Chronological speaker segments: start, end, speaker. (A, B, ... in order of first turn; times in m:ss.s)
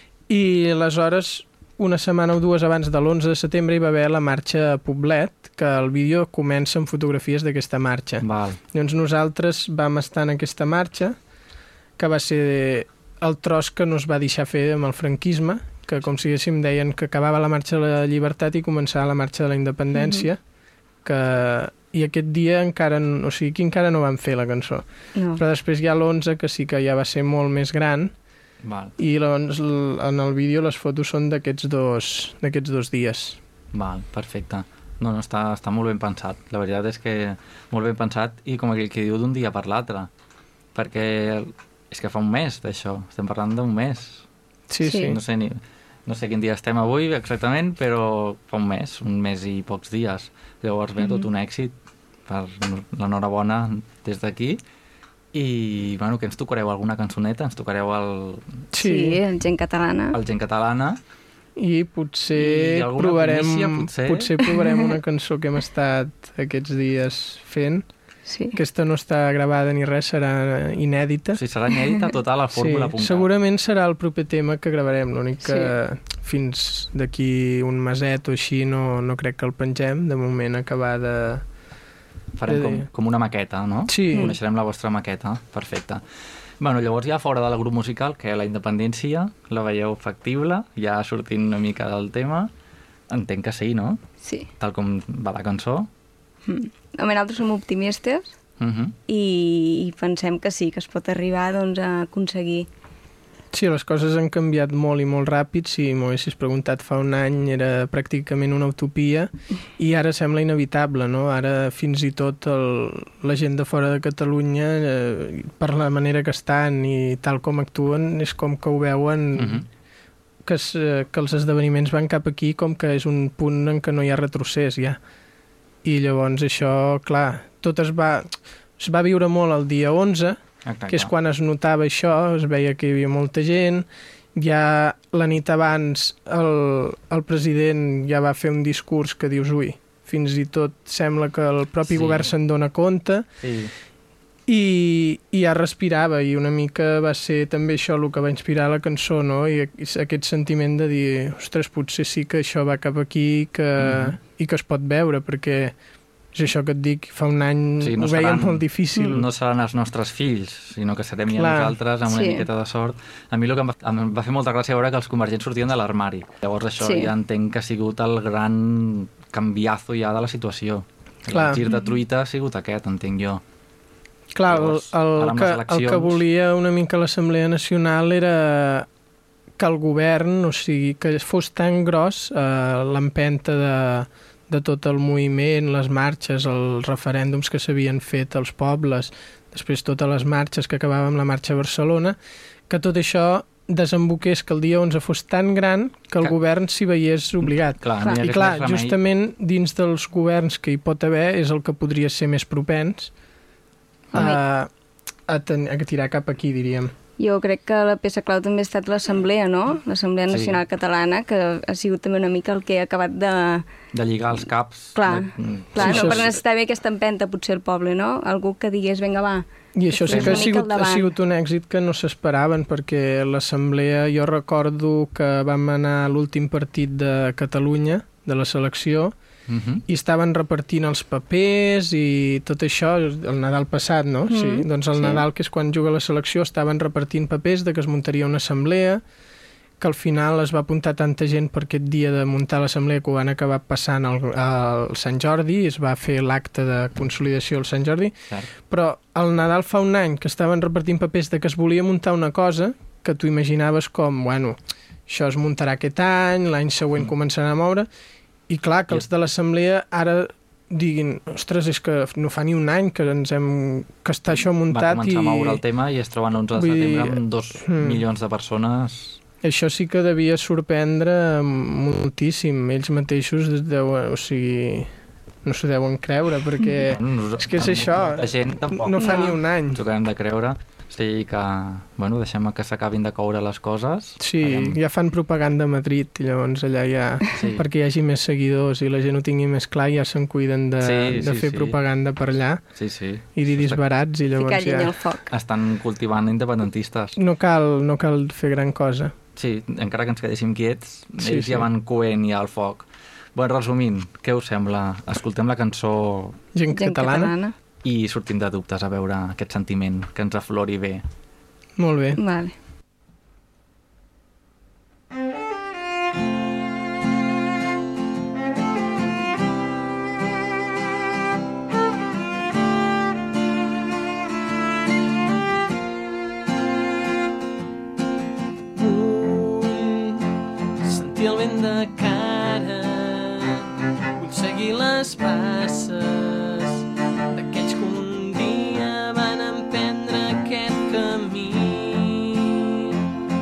0:00.3-0:11.2 A
0:08.2-0:08.6 B
0:12.0-0:20.4 A
0:19.9-0:20.2 C
0:21.0-0:28.1 A
0:28.6-0:28.9 B
0:29.0-0:33.4 A
0:33.7-0:40.1 B
0:40.7-0:44.2 B
0:44.7-0:45.2 A
0:44.8-0:45.1 C
0:44.9-0:51.7 B
0:51.0-0:51.2 C
0:52.3-0:54.6 B
0:55.3-0:58.6 B
0:58.7-0:59.2 A
0:58.8-1:00.2 C
1:00.1-1:01.0 B
1:01.6-1:07.9 A
1:02.3-1:04.3 B
1:08.3-1:08.6 C
1:08.5-1:11.4 A
1:11.3-1:13.3 B
1:12.5-1:21.4 A
1:15.4-1:15.7 C
1:22.4-1:26.0 B
1:22.5-1:22.9 A
1:23.9-1:24.3 A
1:26.6-1:32.5 B
1:33.1-1:34.0 B
1:34.2-1:34.5 C
1:34.6-1:35.9 B
1:36.5-1:38.3 C
1:38.6-1:38.9 B
1:39.1-1:42.7 C
1:43.5-1:59.6 A
1:59.4-1:59.6 B
2:00.4-2:05.0 A
2:05.8-2:23.3 A
2:10.6-2:11.1 B
2:21.9-2:22.3 B
2:23.4-2:23.7 B
2:24.5-2:35.8 A
2:33.8-2:34.2 B
2:36.3-2:39.2 A
2:37.8-2:53.4 B
2:41.3-2:41.8 A
2:42.1-2:42.4 C
2:46.8-2:47.1 C
2:51.3-2:51.6 A
2:54.3-2:58.9 A
2:54.5-2:56.2 B
2:59.6-3:12.2 A
3:12.7-3:23.1 A
3:17.8-3:19.0 B
3:24.1-3:24.7 A
3:25.3-3:26.9 A
3:27.2-3:33.6 C
3:30.3-3:30.6 B
3:33.9-3:36.3 B
3:35.0-3:41.1 C
3:35.8-3:36.3 A
3:39.8-3:49.1 A
3:40.1-3:40.5 B
3:49.5-3:49.8 B
3:49.9-3:59.0 A
3:54.3-3:55.2 C
3:59.8-4:17.9 A
4:18.5-4:25.6 A
4:24.7-4:29.2 B
4:26.5-4:28.0 A
4:29.4-4:34.9 A
4:35.4-4:39.8 A
4:36.7-4:44.8 B
4:39.0-4:39.3 C
4:44.2-4:52.6 A
4:47.3-4:47.6 B
4:50.8-4:51.8 B
4:52.8-4:53.9 B
4:53.4-4:54.9 A
4:54.3-4:55.2 C
4:55.3-4:57.1 B
4:57.2-4:59.1 A
4:59.4-5:06.4 B
5:01.2-5:01.7 A
5:06.5-5:07.3 A
5:06.7-5:07.5 C
5:07.8-5:11.0 B
5:11.8-5:12.2 A
5:12.2-5:12.5 C
5:28.8-5:30.2 D
5:30.8-5:33.7 D
5:34.2-5:42.9 D